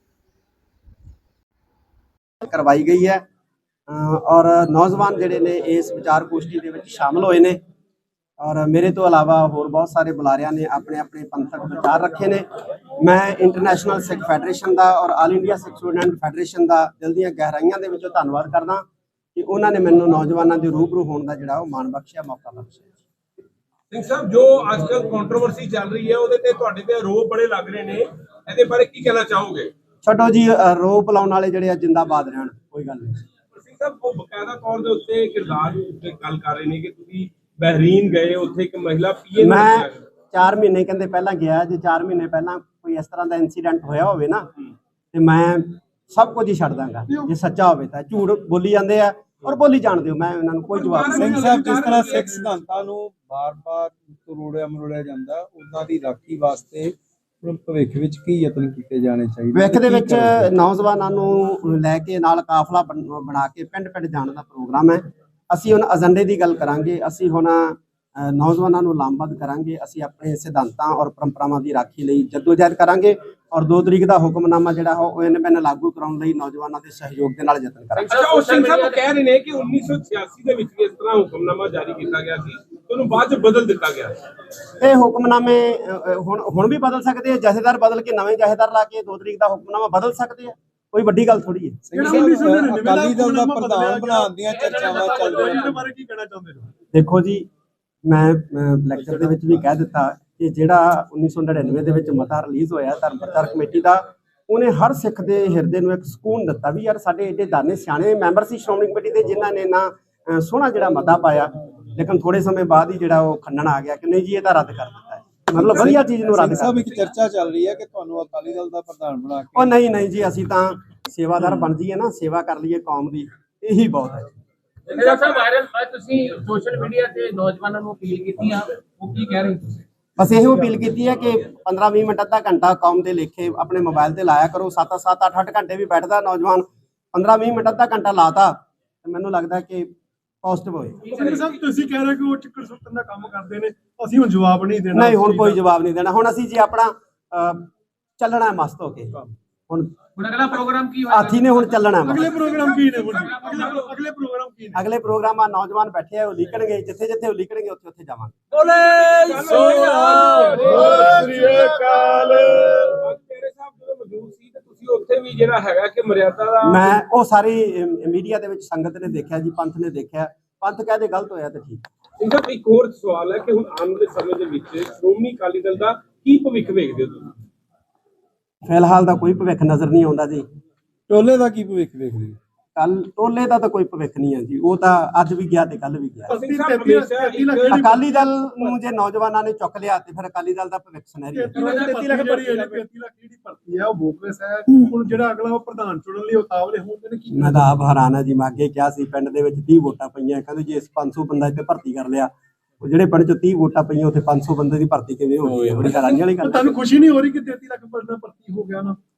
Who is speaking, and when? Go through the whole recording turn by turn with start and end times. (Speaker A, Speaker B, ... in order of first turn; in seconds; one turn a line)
Speaker A: 2.4-3.2
Speaker A: 3.9-7.6
Speaker A: 8.4-12.5
Speaker A: 13.0-22.9
Speaker B: 23.9-29.7
Speaker A: 30.0-33.2
Speaker B: 33.6-40.0
Speaker A: 39.4-44.5
Speaker A: 45.1-51.3
Speaker B: 50.7-52.5
Speaker C: 51.0-52.5
Speaker D: 51.1-60.5
Speaker A: 59.5-78.1
Speaker E: 78.0-79.0
Speaker B: 78.1-84.2
Speaker A: 84.8-91.8
Speaker D: 91.8-95.7
Speaker C: 91.9-96.7
Speaker E: 94.4-95.8
Speaker A: 96.9-97.5
Speaker A: 98.1-116.9
Speaker D: 99.0-99.3
Speaker D: 115.5-119.8
Speaker A: 119.5-124.3
Speaker E: 124.9-129.8
Speaker A: 130.2-141.0
Speaker C: 141.0-145.6
Speaker B: 141.0-141.7
Speaker E: 141.1-141.5
Speaker A: 144.9-149.9
Speaker E: 150.2-153.8
Speaker A: 151.1-152.4
Speaker C: 152.0-154.8
Speaker B: 152.5-153.9
Speaker A: 154.7-158.4
Speaker B: 158.5-167.0
Speaker D: 158.6-162.9
Speaker C: 160.4-161.6
Speaker A: 166.6-171.8
Speaker B: 172.2-177.3
Speaker A: 178.7-180.5
Speaker D: 181.1-182.4
Speaker A: 182.8-186.4
Speaker B: 186.3-187.9
Speaker C: 186.3-188.8
Speaker A: 187.7-191.7
Speaker C: 191.3-197.7
Speaker B: 191.5-192.8
Speaker A: 197.3-206.8
Speaker C: 205.8-209.0